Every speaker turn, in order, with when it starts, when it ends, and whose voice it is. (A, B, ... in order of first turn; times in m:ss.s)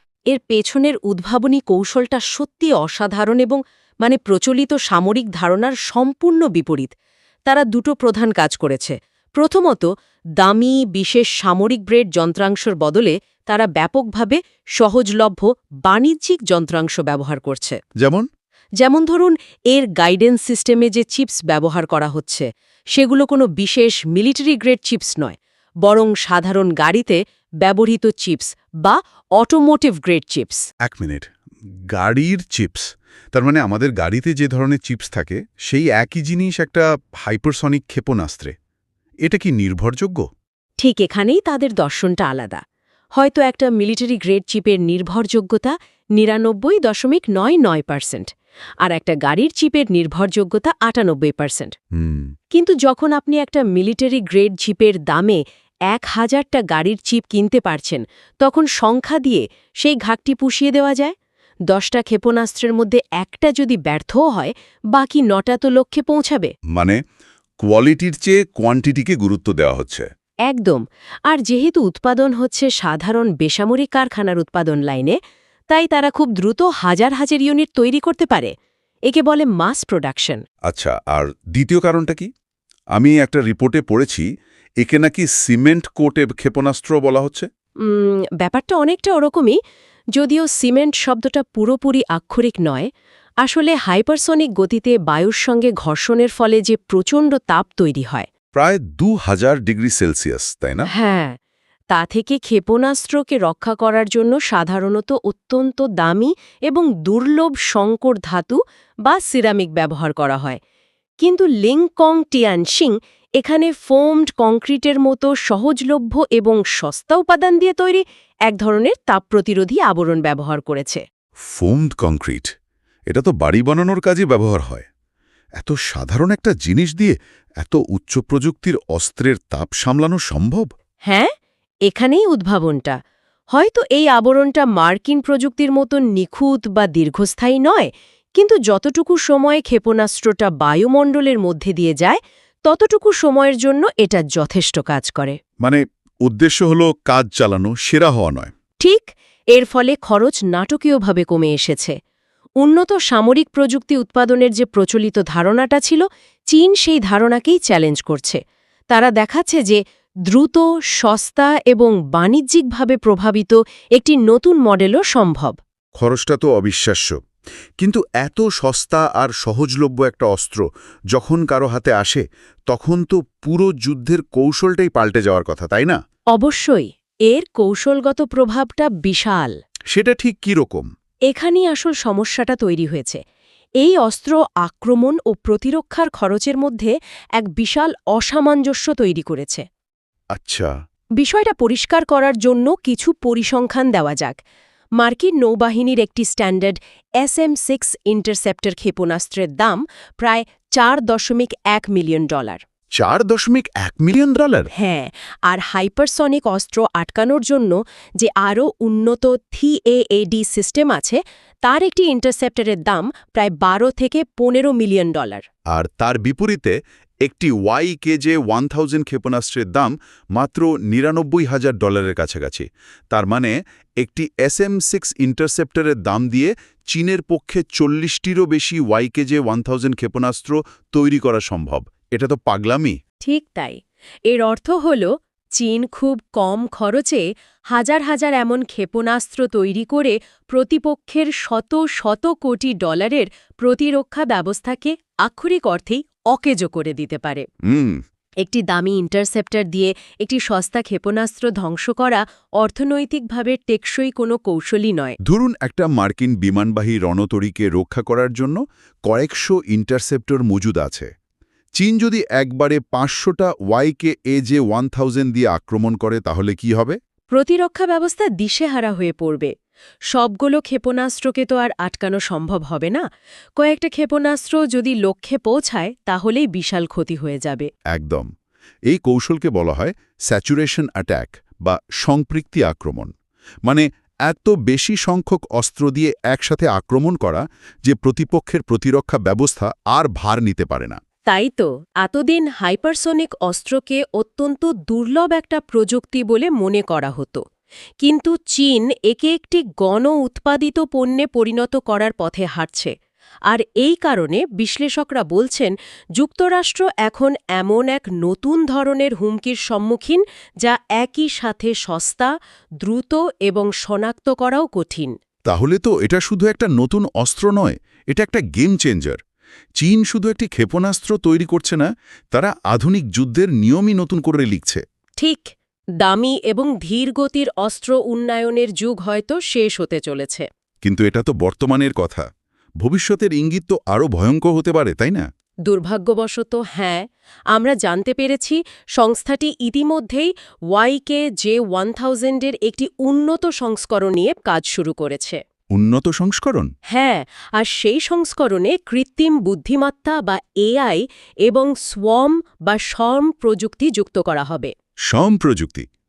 0:00.3-0:06.9 A
0:07.5-0:09.9 A
0:10.4-0:17.8 A
0:18.0-0:18.3 B
0:18.8-0:30.7 A
0:30.8-0:31.3 B
0:31.9-0:38.5 B
0:39.2-0:40.3 B
0:40.8-0:42.6 A
0:43.2-0:48.3 A
0:48.8-0:51.7 A
0:52.0-0:52.3 B
0:52.5-1:01.1 A
1:01.7-1:06.5 A
1:06.7-1:07.0 B
1:07.6-1:10.1 B
1:10.5-1:15.2 A
1:15.7-1:18.5 A
1:19.1-1:20.4 A
1:20.7-1:22.3 B
1:22.9-1:24.3 B
1:24.8-1:27.5 B
1:27.8-1:29.6 A
1:30.2-1:32.9 A
1:33.4-1:38.3 A
1:38.6-1:40.9 B
1:40.9-1:41.4 A
1:41.9-1:50.6 A
1:51.2-2:01.0 A
2:01.5-2:02.5 B
2:03.1-2:04.9 B
2:05.6-2:10.7 B
2:11.1-2:11.3 A
2:11.9-2:13.0 A
2:13.5-2:25.4 A
2:25.6-2:28.5 B
2:28.8-2:32.0 A
2:32.6-2:45.6 A
2:46.0-2:47.2 B
2:47.8-2:56.0 B
2:56.3-2:59.5 A
2:59.9-3:00.9 B
3:01.3-3:03.2 A
3:03.8-3:09.6 A
3:10.3-3:10.7 B
3:11.2-3:14.4 A
3:15.0-3:22.6 A
3:23.0-3:24.7 B
3:24.7-3:35.4 A
3:35.7-3:53.0 B
3:53.2-4:07.5 A
4:07.6-4:08.0 B
4:08.4-4:15.2 A
4:15.2-4:21.1 B
4:21.8-4:27.0 B
4:27.3-4:29.5 A
4:30.1-4:33.0 A
4:33.6-4:37.7 A
4:37.9-4:38.3 B
4:38.9-4:43.1 B
4:43.6-4:51.0 B
4:51.3-4:57.4 A
4:58.0-5:02.9 A
5:03.5-5:15.1 A
5:15.5-5:19.2 B
5:19.8-5:24.8 B
5:25.2-5:30.5 A
5:30.8-5:32.3 B
5:32.8-5:35.2 B
5:35.6-5:45.4 A
5:45.7-5:46.7 B
5:46.9-5:54.7 A
5:55.1-5:55.9 B